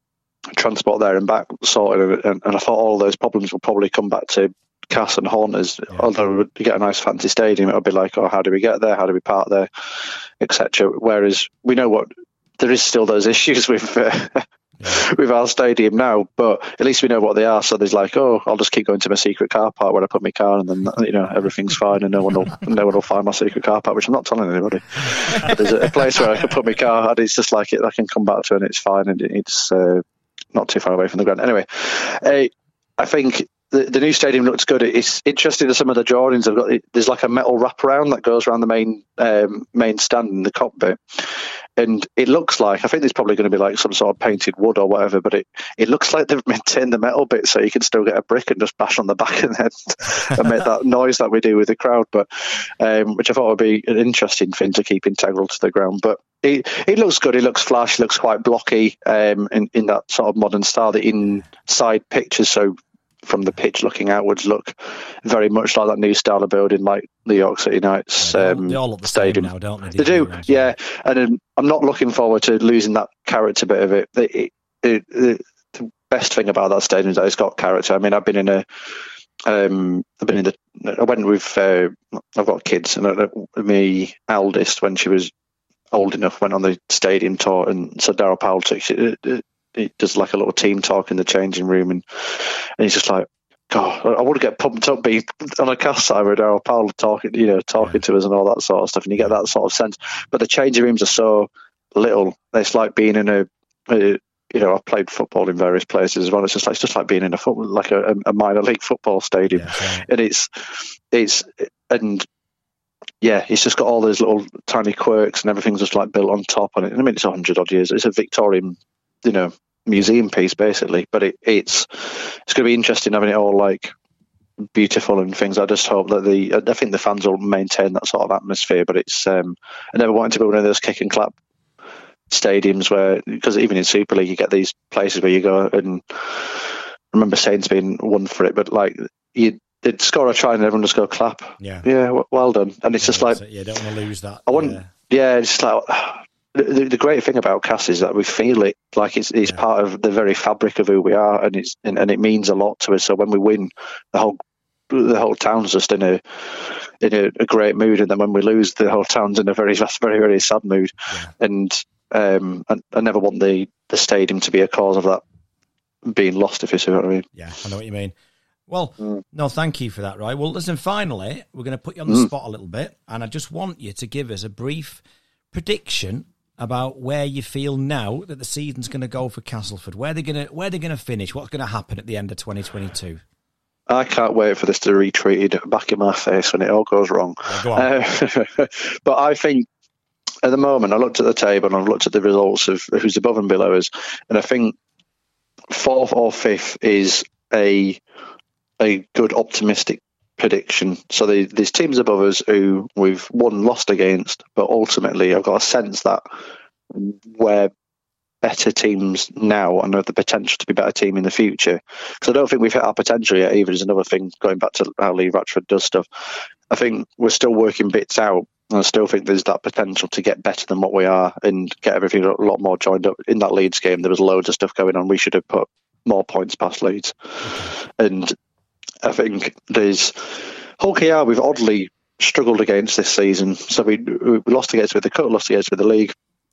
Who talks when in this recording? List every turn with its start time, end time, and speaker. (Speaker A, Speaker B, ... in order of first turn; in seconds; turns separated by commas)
Speaker A: 0.5-9.7, Speaker A: 10.4-30.0, Speaker A: 30.5-78.7, Speaker B: 68.2-70.7, Speaker A: 79.5-85.3, Speaker A: 85.9-112.3, Speaker B: 109.5-110.1, Speaker A: 113.2-123.9, Speaker A: 124.7-131.3, Speaker A: 132.3-143.4, Speaker B: 141.6-141.9, Speaker B: 143.0-144.9, Speaker A: 144.5-154.4, Speaker A: 154.9-165.2, Speaker A: 166.1-167.3, Speaker B: 167.3-168.1, Speaker B: 168.7-175.0, Speaker B: 175.5-183.2, Speaker A: 183.9-189.7, Speaker B: 187.4-187.9, Speaker A: 190.4-194.8, Speaker A: 195.7-198.0, Speaker A: 198.8-206.2, Speaker A: 206.9-207.7, Speaker A: 208.4-216.1, Speaker A: 216.7-228.3, Speaker B: 227.4-227.7, Speaker A: 229.0-236.1